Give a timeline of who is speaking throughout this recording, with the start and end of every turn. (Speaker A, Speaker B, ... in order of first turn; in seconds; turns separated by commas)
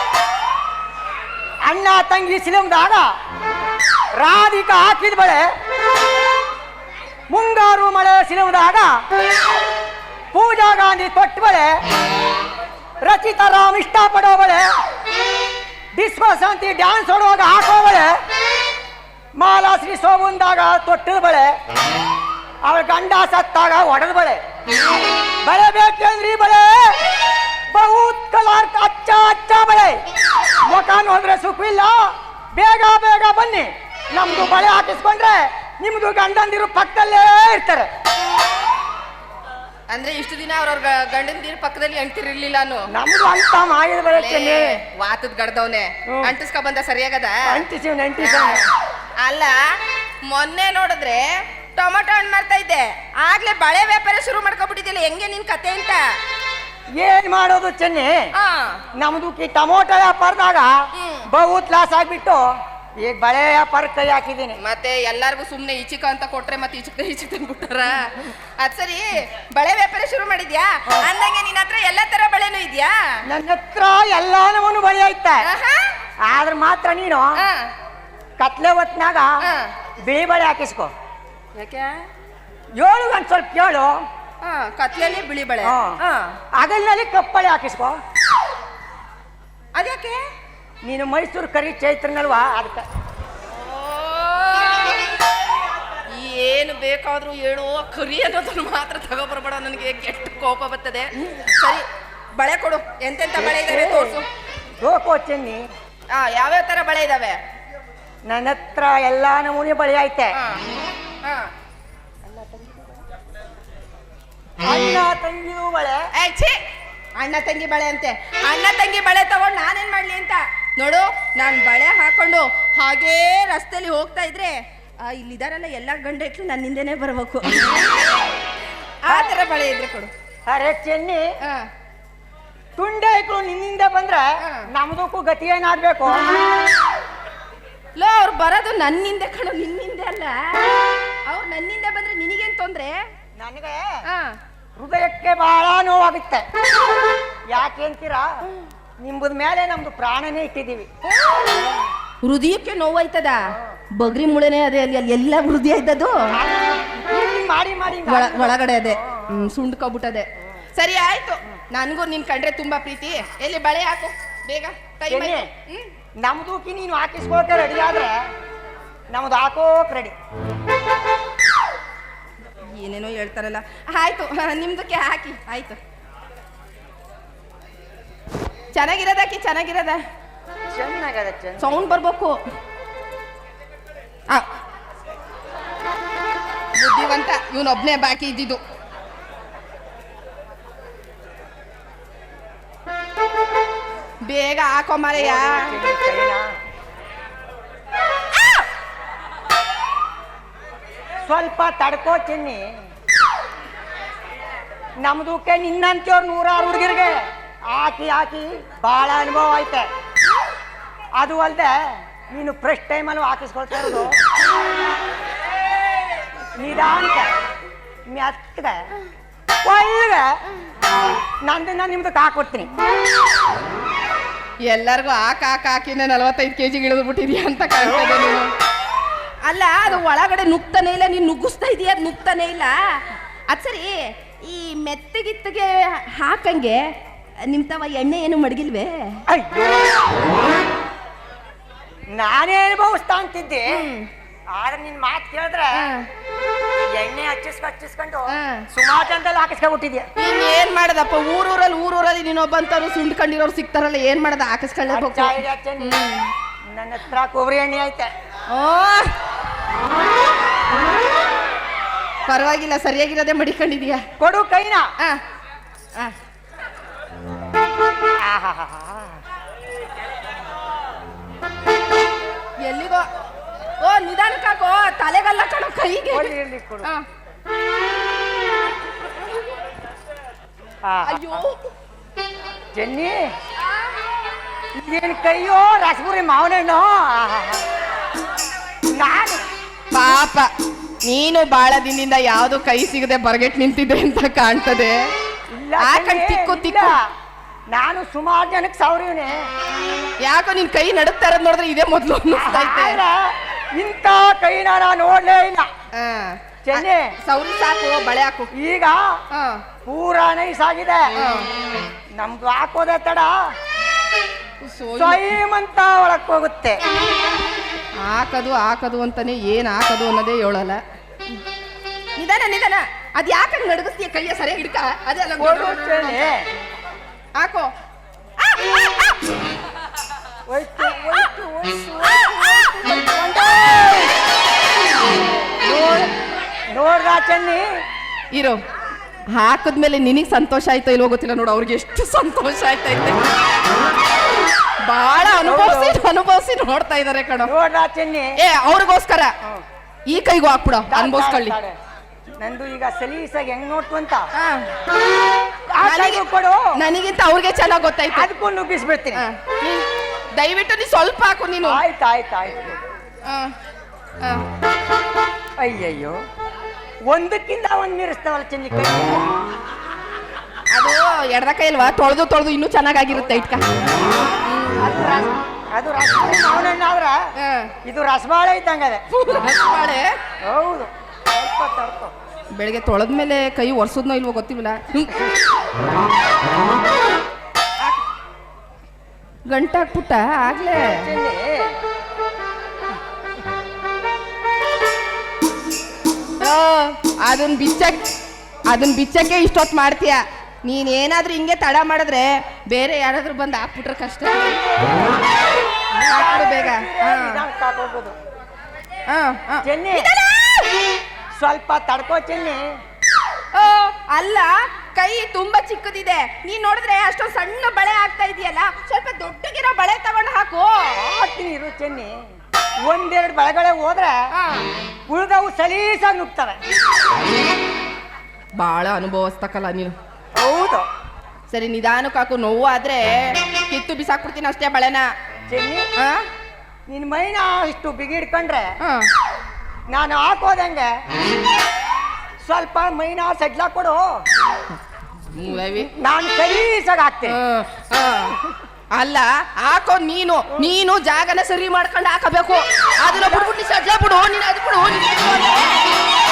Speaker A: 1.6-3.1, Speaker A: 4.2-5.5, Speaker A: 7.3-8.9, Speaker A: 10.3-11.8, Speaker A: 13.0-14.7, Speaker A: 15.9-18.1, Speaker A: 19.4-21.5, Speaker A: 22.6-24.4, Speaker A: 25.4-27.1, Speaker A: 27.7-30.0, Speaker A: 30.6-37.9, Speaker B: 39.9-42.9, Speaker A: 42.9-44.7, Speaker B: 44.1-47.6, Speaker A: 47.5-48.6, Speaker B: 48.2-48.6, Speaker B: 49.2-49.5, Speaker B: 50.2-56.0, Speaker A: 57.0-58.3, Speaker B: 58.4-58.8, Speaker A: 59.0-62.4, Speaker B: 60.9-61.3, Speaker A: 63.0-64.6, Speaker B: 64.6-73.2, Speaker A: 73.3-75.5, Speaker B: 75.4-75.9, Speaker A: 76.2-77.4, Speaker B: 77.4-77.7, Speaker A: 78.4-79.3, Speaker B: 79.4-79.7, Speaker A: 80.0-80.9, Speaker B: 81.5-82.0, Speaker A: 82.8-83.9, Speaker B: 84.4-86.3, Speaker A: 85.6-86.0, Speaker A: 86.5-88.0, Speaker B: 89.8-90.2, Speaker A: 90.8-92.8, Speaker B: 93.5-95.0, Speaker B: 96.1-101.8, Speaker B: 102.4-104.2, Speaker A: 103.3-104.2, Speaker A: 104.8-105.6, Speaker B: 106.1-107.4, Speaker A: 108.3-110.3, Speaker B: 110.3-110.6, Speaker B: 111.2-111.5, Speaker B: 112.3-112.9, Speaker A: 114.6-116.0, Speaker B: 116.2-116.6, Speaker B: 117.2-127.8, Speaker B: 129.1-130.1, Speaker A: 130.5-131.2, Speaker A: 132.8-136.3, Speaker B: 134.4-134.7, Speaker B: 137.9-143.1, Speaker A: 143.4-144.0, Speaker B: 144.1-144.4, Speaker A: 144.8-146.4, Speaker A: 147.5-148.3, Speaker A: 149.0-151.8, Speaker B: 152.2-156.3, Speaker A: 156.3-159.2, Speaker B: 158.0-165.9, Speaker A: 165.1-165.5, Speaker A: 166.2-168.2, Speaker A: 169.1-170.1, Speaker B: 172.6-175.8, Speaker B: 178.7-180.0, Speaker A: 180.7-182.0, Speaker B: 181.6-182.4, Speaker B: 186.8-188.6, Speaker B: 194.2-195.7, Speaker A: 195.1-196.4, Speaker A: 201.3-202.6, Speaker A: 205.0-209.9, Speaker A: 211.2-214.1, Speaker A: 216.6-217.3, Speaker A: 218.1-218.8, Speaker A: 219.6-220.3, Speaker A: 221.4-222.7, Speaker B: 224.7-228.5, Speaker B: 229.4-236.8, Speaker B: 237.4-239.2, Speaker A: 239.3-240.1, Speaker A: 242.1-243.8, Speaker B: 243.7-244.1, Speaker A: 244.5-245.9, Speaker B: 245.7-246.1, Speaker A: 246.9-250.1, Speaker B: 248.3-248.6, Speaker B: 250.2-256.3, Speaker A: 254.9-256.0, Speaker A: 256.7-258.1, Speaker B: 258.5-259.1, Speaker B: 262.3-264.0, Speaker A: 264.2-264.9, Speaker A: 268.2-269.2, Speaker B: 272.6-273.0, Speaker B: 273.8-276.3, Speaker A: 276.1-276.9, Speaker A: 280.8-281.4, Speaker B: 281.0-281.7, Speaker A: 282.7-283.3, Speaker A: 284.8-287.6, Speaker A: 288.9-289.4, Speaker B: 289.9-290.5, Speaker B: 291.0-294.9, Speaker A: 295.5-297.0, Speaker B: 295.8-296.9, Speaker A: 297.7-299.4, Speaker B: 300.2-303.0, Speaker A: 302.3-305.7, Speaker B: 305.9-308.5, Speaker A: 306.7-307.1, Speaker A: 308.5-309.0, Speaker B: 309.3-309.6, Speaker A: 309.9-311.1, Speaker B: 311.1-311.5, Speaker A: 312.2-313.3, Speaker B: 314.6-315.3, Speaker A: 314.9-316.8, Speaker B: 318.0-320.8, Speaker B: 322.1-326.2, Speaker A: 325.4-326.4, Speaker B: 327.4-327.7, Speaker B: 328.5-329.1, Speaker A: 330.5-334.1, Speaker A: 335.6-336.1, Speaker A: 336.7-337.6, Speaker B: 338.3-338.6, Speaker B: 339.3-343.2, Speaker B: 344.9-347.5, Speaker A: 345.2-346.0, Speaker A: 347.4-348.4, Speaker B: 348.4-349.3, Speaker B: 350.1-351.6, Speaker A: 350.9-351.7, Speaker A: 352.4-354.3, Speaker B: 354.4-354.7, Speaker A: 355.7-356.7, Speaker B: 355.8-358.3, Speaker A: 358.1-359.2, Speaker B: 359.1-359.8, Speaker B: 360.4-361.8, Speaker A: 361.6-362.8, Speaker B: 363.3-363.5, Speaker A: 365.6-366.1, Speaker A: 367.1-369.3, Speaker B: 370.7-373.6, Speaker A: 373.1-373.8, Speaker B: 374.4-375.3, Speaker A: 375.7-377.2, Speaker B: 377.4-377.7, Speaker A: 377.9-379.0, Speaker B: 379.1-380.1, Speaker A: 380.4-382.1, Speaker B: 382.6-385.3, Speaker B: 389.5-391.1, Speaker A: 390.8-391.7, Speaker B: 396.4-398.1, Speaker B: 398.7-405.0, Speaker A: 405.9-408.1, Speaker B: 406.1-407.4, Speaker B: 409.1-410.8, Speaker A: 409.6-410.1, Speaker A: 411.4-412.6, Speaker B: 413.5-420.9, Speaker A: 421.0-422.1, Speaker A: 422.9-424.2, Speaker B: 424.3-424.7, Speaker A: 425.1-426.6, Speaker B: 428.6-429.9, Speaker A: 430.4-430.9, Speaker B: 431.5-435.1, Speaker A: 435.5-435.8, Speaker B: 436.0-436.2, Speaker A: 436.9-438.7, Speaker B: 438.8-439.1, Speaker A: 439.9-440.9, Speaker A: 442.4-444.0, Speaker B: 445.3-445.9, Speaker A: 445.7-447.4, Speaker B: 447.3-448.4, Speaker B: 448.9-455.8, Speaker A: 453.1-453.5